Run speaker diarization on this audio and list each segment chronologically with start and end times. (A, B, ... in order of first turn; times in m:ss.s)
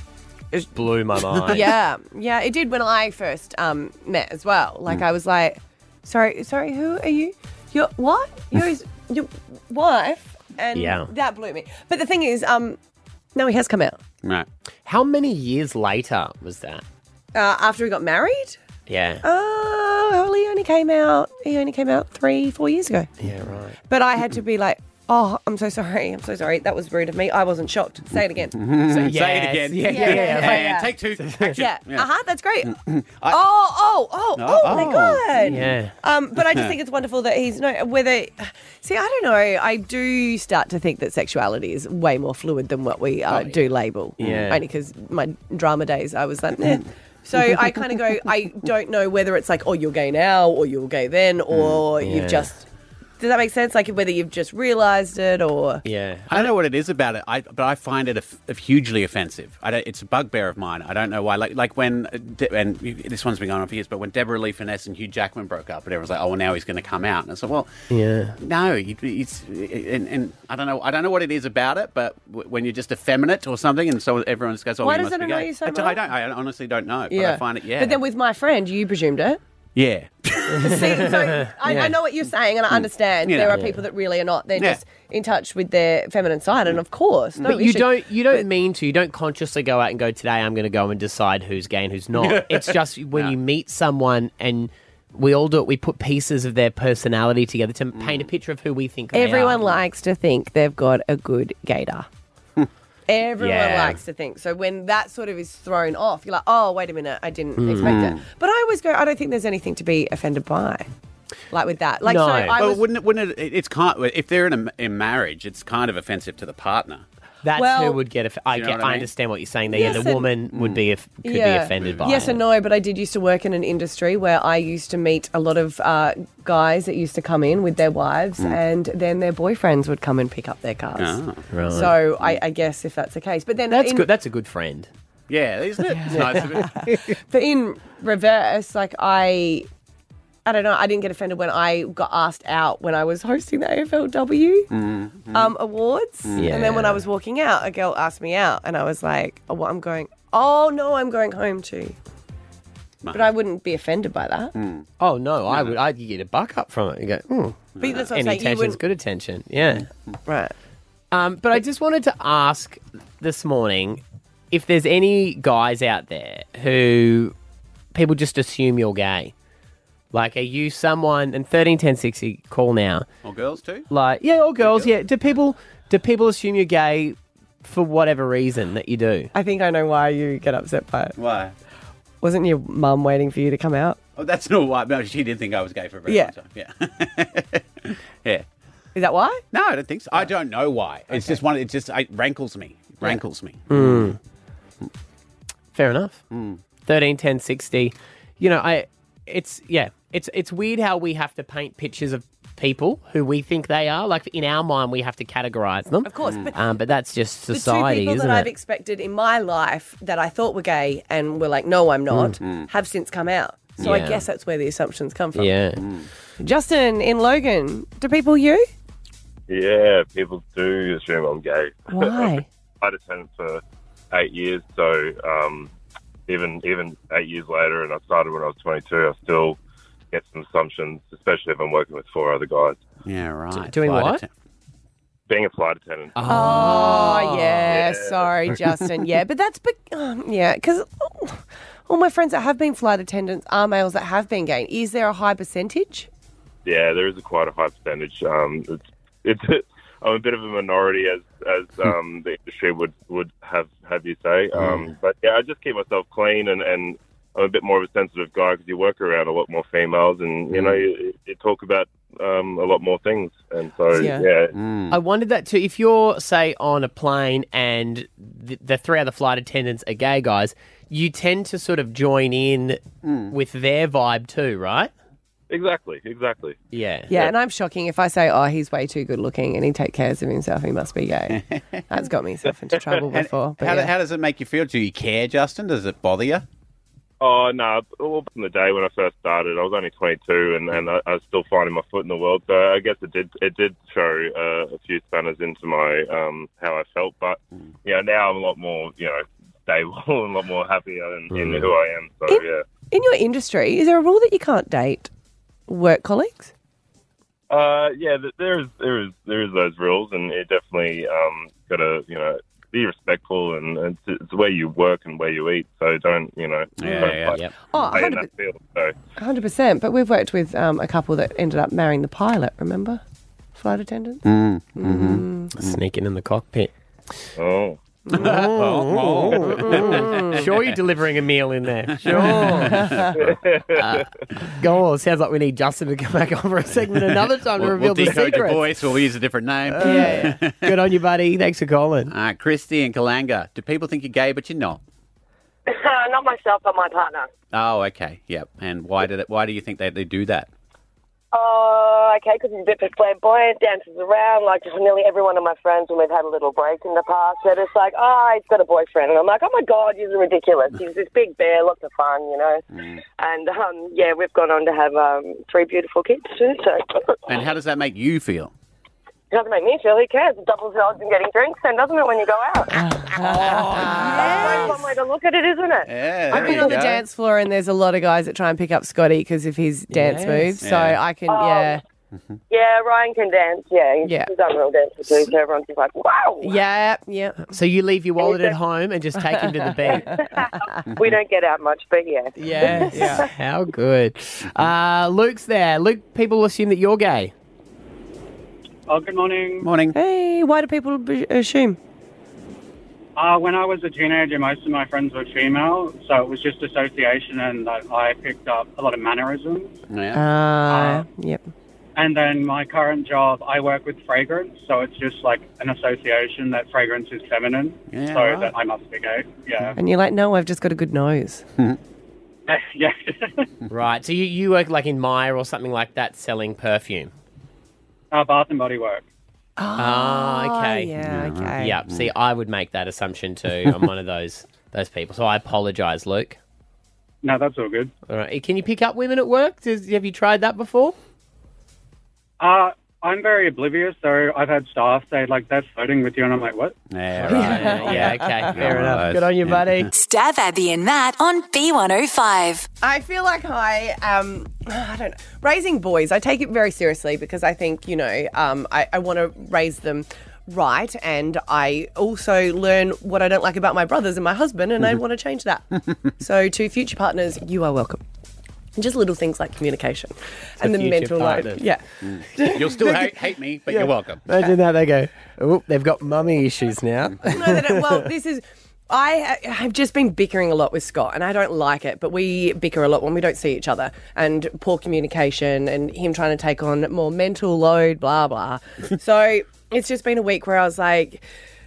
0:00.7-0:01.8 A
0:01.5-0:12.8 B
0:10.7-0:11.1 A
0:13.4-0:14.0 B
0:14.9-0:16.8 A
0:17.3-0:18.6 B
0:18.9-0:19.2 A
0:19.2-0:23.1 B
0:23.2-0:23.8 A
0:23.9-0:28.6 B
0:28.5-0:32.1 C
0:28.9-0:31.6 A
0:29.8-0:30.9 B
0:31.5-0:32.8 B
0:32.6-0:33.4 C
0:33.3-0:52.7 B
0:34.4-0:35.6 C
0:35.4-0:35.9 A
0:36.4-0:36.7 C
0:44.2-0:44.6 A
0:44.2-0:44.5 C
0:51.5-0:51.8 C
0:52.0-0:52.5 A
0:53.2-0:55.8 B
0:55.8-0:56.5 A
0:56.3-1:07.7 C
1:07.9-1:08.4 A
1:08.4-1:18.0 C
1:14.8-1:16.0 B
1:17.1-1:19.4 B
1:19.8-1:21.2 C
1:20.5-1:22.0 A
1:20.6-1:28.5 B
1:22.7-1:23.7 C
1:23.5-1:23.8 A
1:27.4-1:39.7 A
1:32.1-1:33.4 C
1:37.9-1:38.3 C
1:39.1-1:42.1 B
1:43.1-1:50.9 B
1:43.4-1:44.0 A
1:47.6-1:48.0 A
1:47.8-1:48.2 C
1:51.5-1:52.9 B
1:52.0-1:52.6 A
1:52.5-1:57.0 C
1:57.4-2:02.4 A
1:57.6-1:58.0 B
1:58.5-1:59.1 C
1:59.7-2:00.3 B
1:59.8-2:00.8 C
2:01.2-2:14.1 B
2:01.8-2:02.3 C
2:11.0-2:12.4 C
2:11.5-2:11.9 A
2:13.7-2:14.9 A
2:15.3-2:17.0 C
2:16.0-2:19.7 B
2:16.1-2:16.4 A
2:20.4-2:24.7 B
2:24.7-2:25.6 C
2:25.3-2:32.0 B
2:26.2-2:26.6 C
2:26.4-2:27.0 A
2:33.0-2:33.3 C
2:33.1-2:34.5 B
2:34.6-2:34.9 C
2:35.0-2:39.9 A
2:37.8-2:38.1 C
2:37.8-2:38.8 B
2:40.3-2:40.5 B
2:41.1-2:47.4 A
2:47.9-2:49.3 A
2:50.1-2:53.1 A
2:53.2-2:53.9 C
2:53.9-2:59.3 A
2:54.6-2:54.9 C
2:59.3-3:01.2 B
3:01.2-3:01.6 C
3:02.2-3:04.0 B
3:04.2-3:08.4 C
3:06.1-3:06.3 B
3:09.0-3:09.4 B
3:09.5-3:14.1 C
3:11.1-3:11.4 B
3:13.7-3:14.2 A
3:15.7-3:16.2 A
3:16.3-3:16.6 C
3:16.9-3:28.5 A
3:26.0-3:26.6 B
3:26.2-3:26.5 C
3:27.5-3:35.5 B
3:32.1-3:32.4 A
3:32.4-3:32.7 C
3:33.8-3:34.2 A
3:35.4-3:35.8 A
3:35.8-3:36.1 C
3:36.4-3:38.7 B
3:39.5-3:45.7 D
3:41.9-3:42.5 B
3:46.3-3:49.6 D
3:50.1-3:52.8 D
3:53.0-3:54.3 C
3:53.6-3:54.2 A
3:55.3-3:57.1 D
3:56.2-3:57.7 A
3:56.3-4:06.1 B
3:57.7-3:58.3 D
4:06.6-4:24.5 D
4:14.6-4:14.9 C
4:20.5-4:20.9 C
4:23.9-4:24.2 B
4:24.5-4:25.0 C
4:24.9-4:34.9 A
4:33.0-4:33.3 C
4:35.5-4:36.6 D
4:36.7-4:37.2 A
4:37.1-4:43.9 B
4:41.3-4:41.8 C
4:43.0-4:46.4 C
4:47.2-5:02.6 D
5:02.3-5:05.1 B
5:05.7-5:06.5 B
5:07.5-5:19.0 D
5:16.8-5:18.0 C
5:17.3-5:17.5 A
5:17.7-5:18.3 B
5:19.2-5:23.0 B
5:23.6-5:24.2 B
5:24.2-5:25.8 C
5:24.8-5:25.5 B
5:25.5-5:26.7 A
5:27.4-5:27.8 D
5:28.1-5:28.4 B
5:28.1-5:30.4 C
5:28.1-5:33.1 A
5:29.4-5:30.4 B
5:31.9-5:33.4 C
5:32.2-5:33.2 B
5:33.2-5:34.0 D
5:33.7-5:38.7 A
5:36.9-5:40.8 C
5:39.7-5:42.1 A
5:39.8-5:40.3 B
5:42.1-5:44.8 C
5:45.7-5:47.3 E
5:47.5-5:50.5 C
5:51.3-6:02.6 E
6:03.2-6:07.4 E
6:07.3-6:08.5 C
6:09.3-6:15.9 E
6:13.0-6:14.8 B
6:13.2-6:14.8 A
6:15.8-6:17.0 C
6:16.3-6:21.8 B
6:19.9-6:20.6 A
6:20.6-6:21.0 C
6:21.3-6:21.8 E
6:22.5-6:26.6 E
6:24.0-6:24.3 B
6:26.4-6:27.5 B
6:27.5-6:30.1 A
6:28.2-6:28.6 E
6:29.9-6:33.2 E
6:32.4-6:33.3 B
6:32.6-6:37.3 A
6:38.9-6:39.7 F
6:39.6-6:40.0 C
6:39.9-6:41.8 B
6:43.2-6:49.7 F
6:49.9-6:50.2 C
6:50.1-6:51.4 B
6:50.7-6:51.1 F
6:52.0-6:59.8 F
6:57.9-6:58.5 C
6:59.8-7:01.4 B
7:02.5-7:03.5 F
7:03.7-7:07.1 A
7:08.1-7:09.0 F
7:09.6-7:11.8 B
7:09.8-7:10.9 A
7:11.0-7:12.1 C
7:11.6-7:16.4 A
7:17.2-7:17.9 F
7:18.1-7:21.0 A
7:22.4-7:26.8 F
7:26.9-7:29.9 C
7:27.2-7:29.9 A
7:27.3-7:28.6 B
7:29.9-7:32.7 G
7:32.8-7:48.0 B
7:48.8-7:51.8 B
7:50.6-7:51.6 A
7:52.0-7:54.2 C
7:52.4-7:53.2 B
7:53.7-7:58.1 A
7:57.3-8:11.2 B